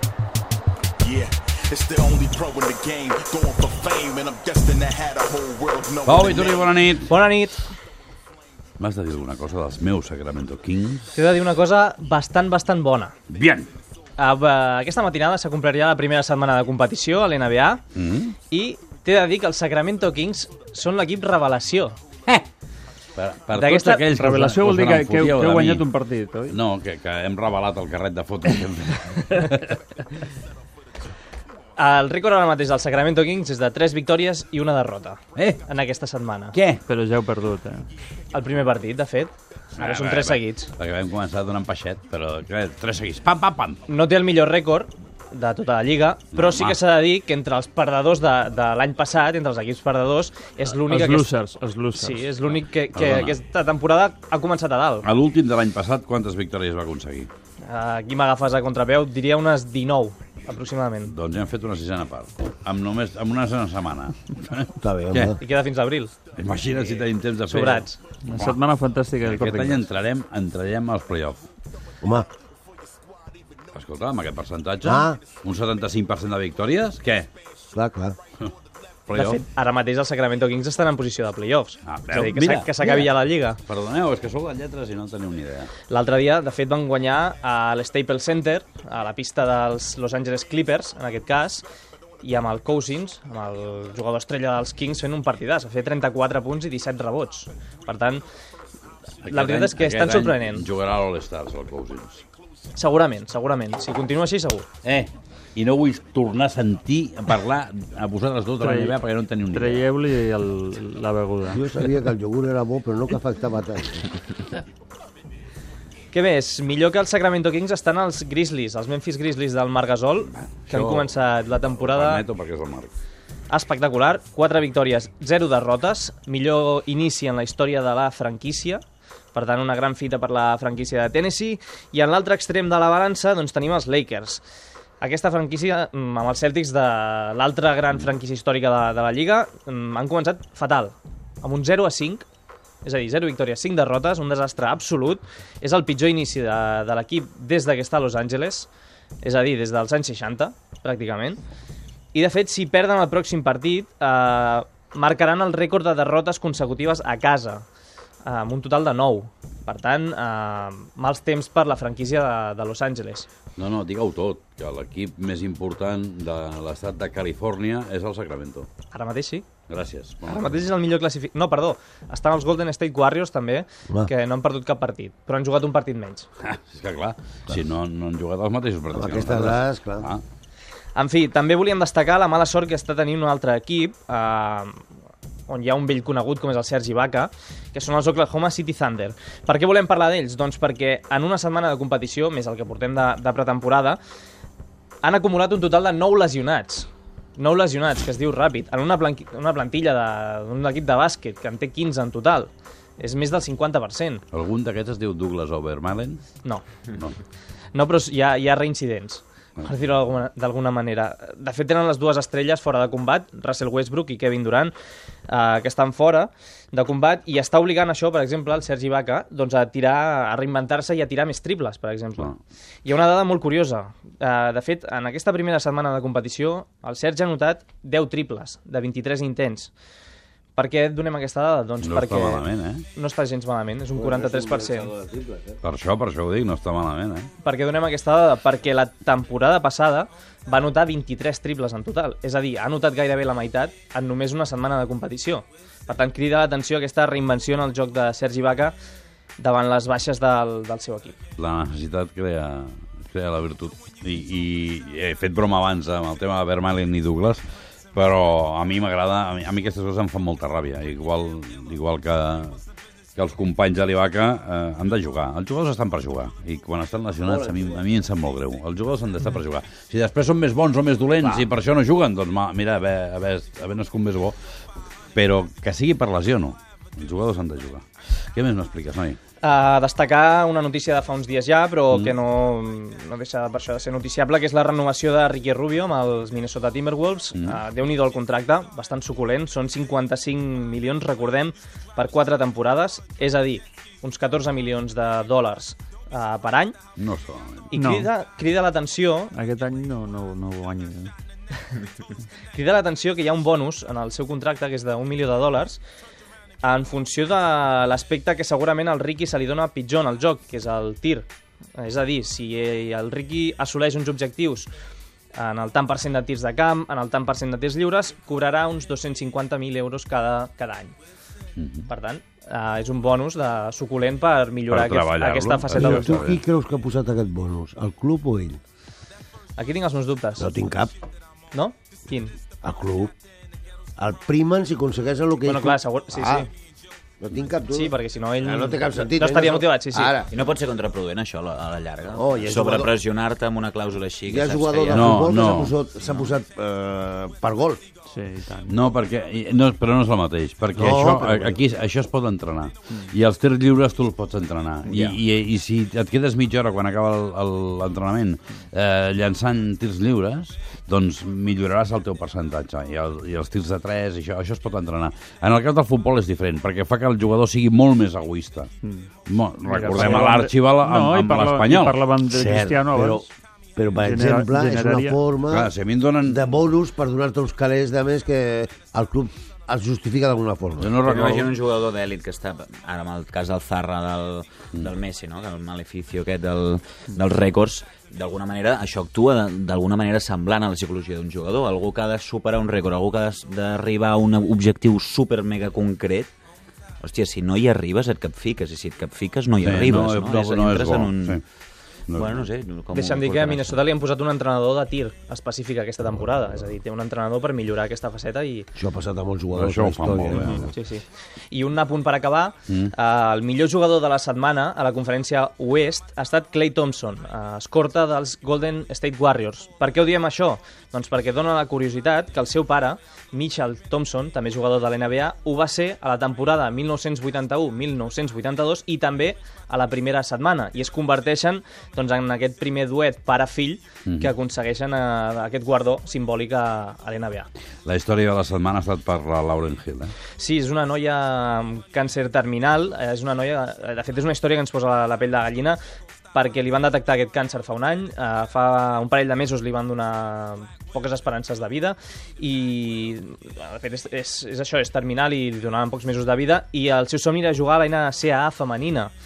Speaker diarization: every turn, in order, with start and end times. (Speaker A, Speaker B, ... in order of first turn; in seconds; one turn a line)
Speaker A: 1.0-6.7
Speaker B: 6.0-7.1
Speaker C: 7.1-7.6
Speaker B: 8.8-11.1
Speaker C: 11.1-13.1
Speaker B: 13.3-13.7
Speaker C: 14.2-17.8
Speaker B: 17.9-18.3
Speaker C: 18.5-22.0
Speaker B: 23.1-25.9
Speaker C: 23.5-24.1
Speaker D: 24.1-26.6
Speaker B: 26.5-29.6
Speaker C: 31.8-36.6
Speaker B: 35.4-35.6
Speaker B: 36.5-36.8
Speaker D: 36.9-37.9
Speaker C: 38.3-40.7
Speaker B: 39.8-43.8
Speaker C: 43.9-51.3
Speaker B: 46.3-46.8
Speaker D: 50.8-52.4
Speaker C: 51.9-55.1
Speaker B: 52.9-53.4
Speaker B: 55.0-57.3
Speaker C: 57.6-61.1
Speaker B: 61.0-65.3
Speaker E: 64.8-65.4
Speaker C: 65.4-66.1
Speaker B: 66.3-68.6
Speaker C: 66.7-68.0
Speaker D: 68.2-69.9
Speaker B: 69.2-71.4
Speaker E: 72.0-72.3
Speaker B: 73.7-77.3
Speaker E: 74.8-75.2
Speaker E: 77.7-78.2
Speaker B: 79.1-79.4
Speaker C: 79.1-83.6
Speaker B: 81.8-83.1
Speaker B: 83.6-85.7
Speaker C: 85.9-91.6
Speaker C: 92.2-98.2
Speaker B: 99.2-102.2
Speaker C: 99.3-100.7
Speaker C: 102.7-104.7
Speaker B: 104.8-109.8
Speaker D: 108.6-109.0
Speaker D: 109.5-111.7
Speaker E: 111.5-114.1
Speaker C: 116.1-122.2
Speaker B: 120.6-121.1
Speaker B: 121.7-122.9
Speaker C: 123.5-134.4
Speaker C: 135.0-142.2
Speaker C: 142.8-148.7
Speaker C: 149.2-151.4
Speaker C: 152.1-157.7
Speaker C: 158.2-163.3
Speaker B: 163.6-168.7
Speaker C: 168.9-169.5
Speaker B: 169.7-170.7
Speaker C: 170.3-176.3
Speaker B: 176.4-180.2
Speaker E: 178.9-180.1
Speaker C: 180.9-184.8
Speaker C: 185.5-194.0
Speaker C: 195.0-204.2
Speaker B: 204.3-206.2
Speaker C: 207.7-214.7
Speaker C: 215.3-222.3
Speaker C: 222.8-229.7
Speaker C: 230.6-234.9
Speaker B: 231.8-232.8
Speaker E: 233.9-235.6
Speaker B: 235.6-237.3
Speaker C: 237.4-248.7
Speaker C: 249.4-251.2
Speaker B: 251.4-262.6
Speaker B: 263.1-274.4
Speaker E: 267.2-267.7
Speaker B: 275.1-279.2
Speaker C: 279.4-296.8
Speaker B: 297.0-297.7
Speaker C: 297.7-299.3
Speaker D: 297.7-298.1
Speaker D: 299.3-301.1
Speaker C: 302.5-305.8
Speaker C: 306.6-311.3
Speaker C: 311.8-314.7
Speaker C: 315.4-320.9
Speaker B: 321.6-321.9
Speaker C: 321.9-326.2
Speaker B: 324.7-326.4
Speaker E: 325.7-328.6
Speaker C: 329.6-330.5
Speaker E: 330.4-330.9
Speaker C: 331.5-332.3
Speaker E: 332.6-333.1
Speaker E: 334.0-336.5
Speaker C: 335.4-336.5
Speaker E: 337.2-340.3
Speaker C: 337.7-340.2
Speaker F: 340.3-345.4
Speaker E: 342.1-342.9
Speaker E: 344.3-347.8
Speaker B: 344.9-345.8
Speaker F: 346.0-346.3
Speaker D: 348.1-348.8
Speaker B: 348.7-368.7
Speaker E: 350.7-351.6
Speaker D: 350.8-351.4
Speaker F: 354.9-355.2
Speaker D: 368.8-369.1
Speaker B: 369.3-372.0
Speaker D: 369.6-373.3
Speaker E: 372.3-375.7
Speaker D: 374.0-375.2
Speaker B: 375.4-376.4
Speaker E: 376.2-381.0
Speaker B: 380.8-381.5
Speaker F: 381.0-396.3
Speaker F: 397.0-401.4
Speaker B: 399.6-401.4
Speaker B: 402.1-402.4
Speaker F: 402.1-403.8
Speaker C: 402.9-408.7
Speaker E: 408.8-410.7
Speaker B: 409.5-410.7
Speaker C: 410.3-437.5
Speaker B: 434.1-434.3
Speaker B: 437.9-440.1
Speaker C: 440.4-445.8
Speaker C: 446.3-459.1